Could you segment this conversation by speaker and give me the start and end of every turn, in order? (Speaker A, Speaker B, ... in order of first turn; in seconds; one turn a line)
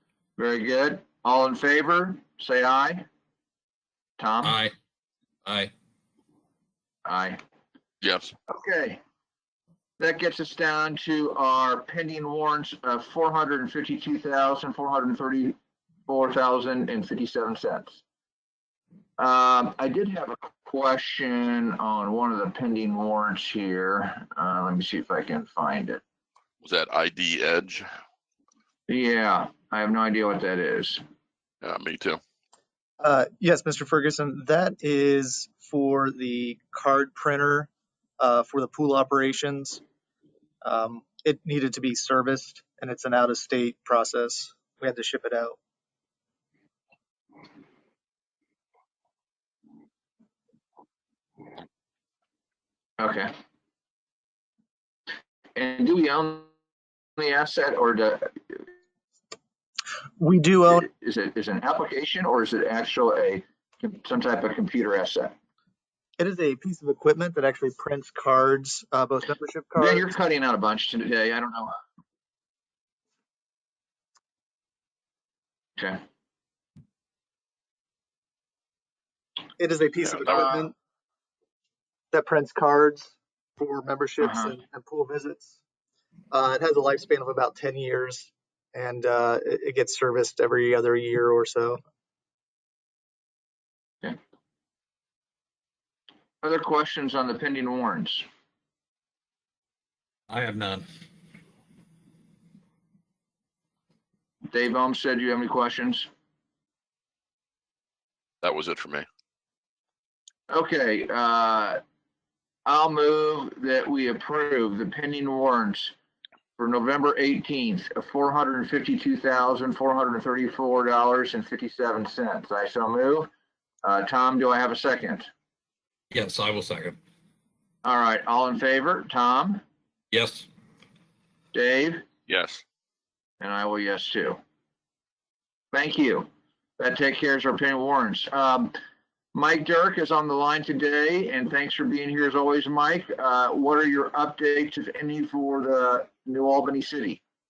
Speaker A: 0.4-3.0
Speaker A: 4.2-4.6
Speaker B: 4.4-4.7
Speaker B: 5.4-5.7
Speaker A: 7.0-7.4
Speaker C: 8.0-8.3
Speaker A: 8.5-9.0
Speaker A: 10.0-15.6
Speaker A: 16.1-18.0
Speaker A: 19.2-26.0
Speaker C: 26.6-27.9
Speaker A: 28.9-31.0
Speaker C: 31.6-32.2
Speaker D: 33.0-39.8
Speaker D: 40.6-45.6
Speaker A: 53.0-53.3
Speaker A: 55.5-56.5
Speaker A: 57.2-58.6
Speaker D: 60.2-60.8
Speaker A: 60.7-65.3
Speaker D: 66.2-70.1
Speaker A: 69.8-71.7
Speaker D: 79.6-80.7
Speaker C: 80.0-80.5
Speaker D: 82.1-85.5
Speaker A: 84.2-84.5
Speaker D: 86.3-91.8
Speaker A: 96.4-98.2
Speaker B: 100.3-100.8
Speaker A: 104.5-106.1
Speaker C: 108.4-109.0
Speaker A: 110.5-111.8
Speaker A: 112.7-115.9
Speaker A: 116.6-123.3
Speaker A: 123.8-125.3
Speaker B: 126.1-127.0
Speaker A: 127.8-129.6
Speaker B: 130.1-130.5
Speaker A: 131.5-132.0
Speaker C: 132.3-132.6
Speaker A: 133.4-134.4
Speaker A: 135.7-136.3
Speaker A: 136.8-138.7
Speaker A: 139.3-147.2